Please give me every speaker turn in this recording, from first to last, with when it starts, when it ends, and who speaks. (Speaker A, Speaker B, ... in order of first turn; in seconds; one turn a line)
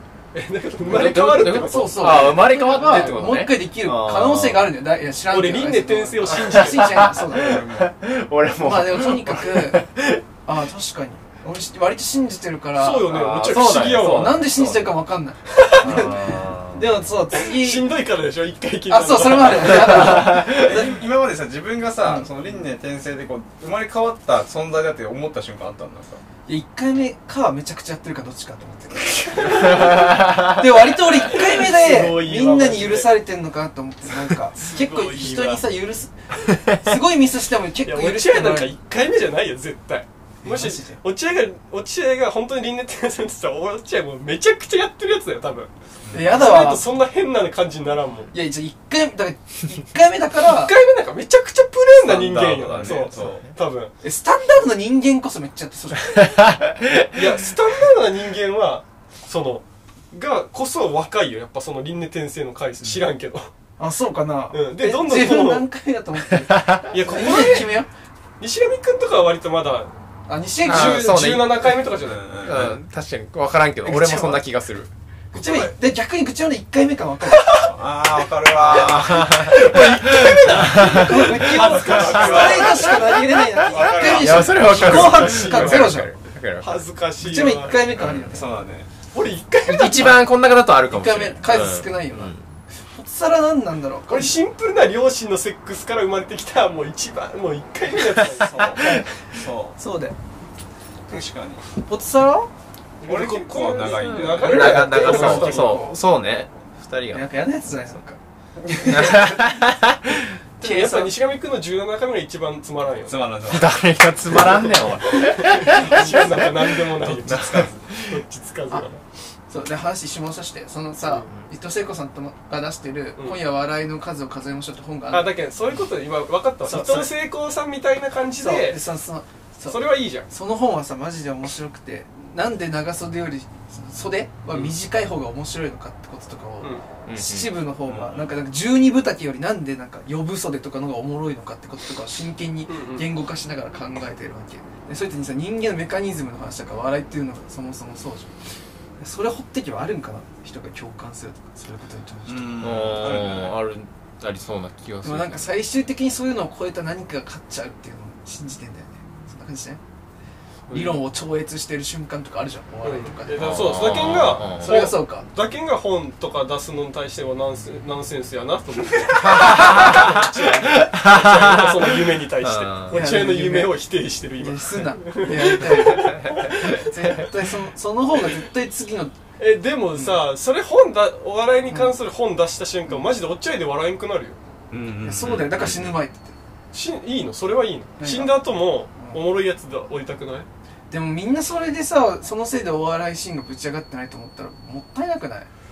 Speaker A: 0.3-3.2
Speaker B: 0.8-4.7
Speaker C: 1.5-7.7
Speaker A: 5.3-7.2
Speaker B: 6.4-10.2
Speaker D: 7.4-7.9
Speaker C: 8.6-9.9
Speaker C: 10.4-17.9
Speaker A: 12.8-14.8
Speaker B: 13.1-14.9
Speaker A: 15.5-16.1
Speaker B: 15.8-16.9
Speaker A: 17.3-20.4
Speaker C: 18.9-21.0
Speaker B: 19.8-20.6
Speaker D: 20.3-26.2
Speaker C: 26.4-38.7
Speaker A: 29.3-30.2
Speaker B: 29.7-30.5
Speaker A: 31.2-33.1
Speaker A: 34.5-35.6
Speaker A: 37.8-45.7
Speaker C: 40.4-41.0
Speaker D: 46.0-46.4
Speaker C: 46.1-46.9
Speaker A: 46.2-48.3
Speaker C: 48.3-50.7
Speaker A: 50.4-53.9
Speaker D: 52.0-53.5
Speaker B: 53.1-53.5
Speaker C: 54.0-56.4
Speaker B: 56.3-57.3
Speaker A: 57.1-63.5
Speaker C: 63.8-67.9
Speaker A: 64.5-65.7
Speaker B: 66.5-66.9
Speaker A: 66.9-67.8
Speaker A: 68.4-69.9
Speaker C: 70.3-71.2
Speaker A: 70.6-72.3
Speaker B: 70.7-71.8
Speaker D: 71.9-72.8
Speaker B: 72.4-74.9
Speaker C: 73.8-74.4
Speaker A: 75.3-75.7
Speaker C: 75.3-77.7
Speaker D: 77.5-79.7
Speaker B: 78.7-81.4
Speaker A: 79.4-83.2
Speaker C: 79.4-86.1
Speaker D: 81.3-85.0
Speaker B: 81.9-82.5
Speaker B: 83.6-86.8
Speaker A: 84.4-87.8
Speaker C: 87.2-88.5
Speaker D: 88.0-88.9
Speaker B: 88.0-88.4
Speaker A: 89.1-90.2
Speaker B: 89.7-92.4
Speaker C: 90.9-92.3
Speaker C: 92.9-94.4
Speaker A: 94.1-99.0
Speaker D: 98.5-98.8
Speaker C: 98.8-99.1
Speaker D: 99.3-99.8
Speaker C: 99.7-100.2
Speaker D: 101.1-101.6
Speaker C: 101.8-102.5
Speaker A: 103.0-106.0
Speaker D: 103.0-104.8
Speaker B: 104.0-107.3
Speaker C: 104.4-106.0
Speaker C: 107.1-108.2
Speaker D: 108.6-109.4
Speaker C: 108.7-109.2
Speaker B: 108.8-110.4
Speaker A: 110.6-113.2
Speaker C: 110.6-111.1
Speaker D: 113.0-115.0
Speaker B: 113.5-118.0
Speaker A: 115.0-119.0
Speaker D: 117.0-117.7
Speaker C: 119.5-125.3
Speaker A: 125.1-128.8
Speaker C: 126.6-127.1
Speaker C: 128.4-148.3
Speaker A: 129.7-130.3
Speaker B: 137.1-137.6
Speaker D: 137.8-138.3
Speaker A: 142.7-143.1
Speaker C: 149.0-152.7
Speaker D: 152.2-153.6
Speaker B: 152.6-155.4
Speaker C: 155.0-159.8
Speaker A: 160.7-161.0
Speaker C: 160.7-163.8
Speaker A: 162.8-176.9
Speaker B: 163.3-164.9
Speaker C: 164.6-165.3
Speaker B: 169.1-173.0
Speaker C: 172.9-173.7
Speaker C: 174.4-179.2
Speaker B: 176.1-176.8
Speaker A: 179.4-184.4
Speaker C: 179.9-180.2
Speaker C: 181.7-181.9
Speaker D: 184.7-185.8
Speaker C: 185.0-186.3
Speaker B: 185.4-185.9
Speaker A: 186.7-190.5
Speaker C: 188.0-188.4
Speaker C: 188.9-189.2
Speaker C: 190.9-195.5